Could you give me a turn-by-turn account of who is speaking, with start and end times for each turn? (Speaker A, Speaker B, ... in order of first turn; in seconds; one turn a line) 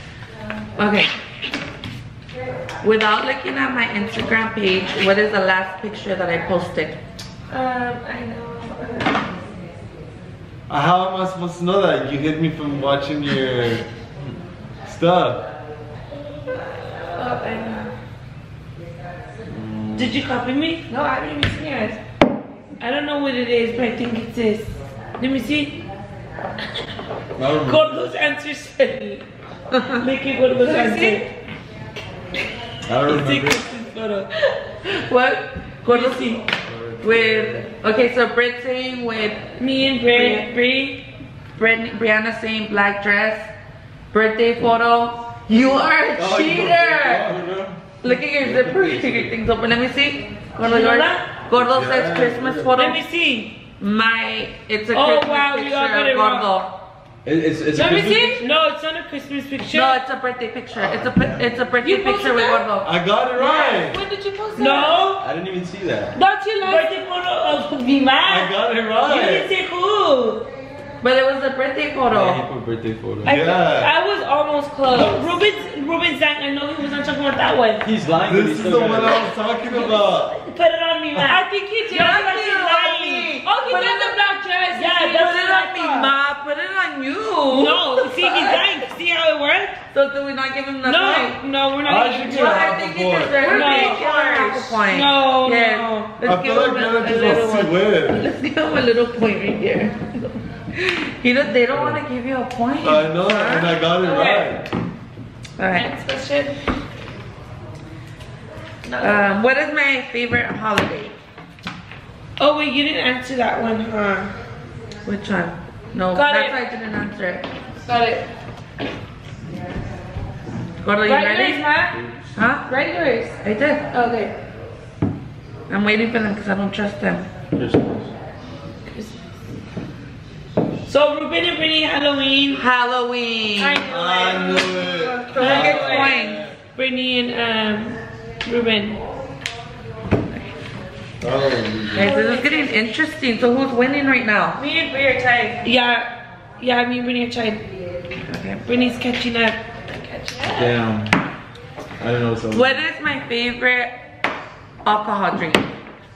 Speaker A: 0.8-1.1
Speaker A: 2.8-7.0
Speaker B: 7.5-9.2
Speaker C: 10.7-13.9
Speaker C: 14.8-15.5
Speaker B: 17.1-17.9
Speaker D: 19.5-20.2
Speaker E: 20.0-20.9
Speaker B: 20.9-22.0
Speaker E: 22.8-25.8
Speaker D: 27.4-28.2
Speaker E: 27.6-29.3
Speaker A: 29.7-30.0
Speaker E: 29.9-31.3
Speaker B: 30.6-31.3
Speaker D: 32.9-33.6
Speaker E: 33.0-34.3
Speaker A: 34.8-36.4
Speaker E: 35.8-36.4
Speaker D: 36.6-37.7
Speaker A: 37.0-39.4
Speaker E: 39.6-41.0
Speaker A: 40.1-40.5
Speaker A: 41.6-43.5
Speaker A: 44.1-47.4
Speaker D: 46.1-49.4
Speaker A: 48.0-53.0
Speaker E: 50.6-51.3
Speaker C: 51.6-52.8
Speaker E: 52.7-53.6
Speaker A: 53.8-56.7
Speaker E: 54.9-56.5
Speaker D: 57.2-58.4
Speaker B: 57.7-58.5
Speaker E: 58.4-60.0
Speaker A: 59.7-62.9
Speaker D: 60.8-61.8
Speaker B: 61.8-62.7
Speaker C: 62.8-64.0
Speaker B: 63.4-65.1
Speaker E: 64.6-65.2
Speaker D: 65.2-66.1
Speaker B: 66.1-66.9
Speaker E: 66.6-70.5
Speaker C: 68.3-69.5
Speaker A: 71.0-72.5
Speaker D: 72.1-73.4
Speaker C: 73.2-73.9
Speaker B: 73.2-75.3
Speaker E: 74.9-77.9
Speaker D: 77.8-79.3
Speaker C: 78.2-80.3
Speaker E: 79.7-81.4
Speaker B: 81.2-82.4
Speaker A: 81.9-83.5
Speaker E: 81.9-84.2
Speaker B: 83.4-85.4
Speaker E: 84.7-86.1
Speaker A: 85.2-88.6
Speaker E: 87.5-89.8
Speaker A: 89.9-91.4
Speaker E: 90.8-92.7
Speaker C: 91.8-93.4
Speaker A: 92.2-103.8
Speaker B: 93.4-94.5
Speaker E: 93.5-97.7
Speaker C: 96.2-98.3
Speaker C: 101.7-102.0
Speaker C: 102.8-104.7
Speaker B: 104.0-104.6
Speaker A: 105.6-105.9
Speaker B: 105.7-106.6
Speaker B: 108.8-109.3
Speaker A: 109.0-111.2
Speaker E: 112.4-114.3
Speaker A: 115.0-117.5
Speaker B: 116.2-116.6
Speaker B: 117.9-118.3
Speaker A: 120.8-121.7
Speaker B: 121.0-122.1
Speaker A: 122.4-122.7
Speaker B: 122.7-123.4
Speaker A: 123.4-123.9
Speaker B: 123.9-124.3
Speaker A: 125.7-127.3
Speaker D: 127.5-128.1
Speaker B: 128.9-129.2
Speaker E: 130.9-132.6
Speaker A: 132.6-133.8
Speaker B: 133.6-136.1
Speaker C: 133.9-136.5
Speaker E: 135.4-136.1
Speaker A: 135.4-136.5
Speaker D: 135.4-136.2
Speaker E: 136.8-139.0
Speaker C: 141.2-142.1
Speaker A: 141.9-144.6
Speaker B: 141.9-142.8
Speaker B: 144.6-145.7
Speaker E: 145.6-147.6
Speaker A: 148.3-148.6
Speaker E: 148.7-149.6
Speaker B: 149.9-150.8
Speaker D: 150.5-151.2
Speaker D: 152.0-152.8
Speaker A: 152.5-154.0
Speaker A: 154.8-155.7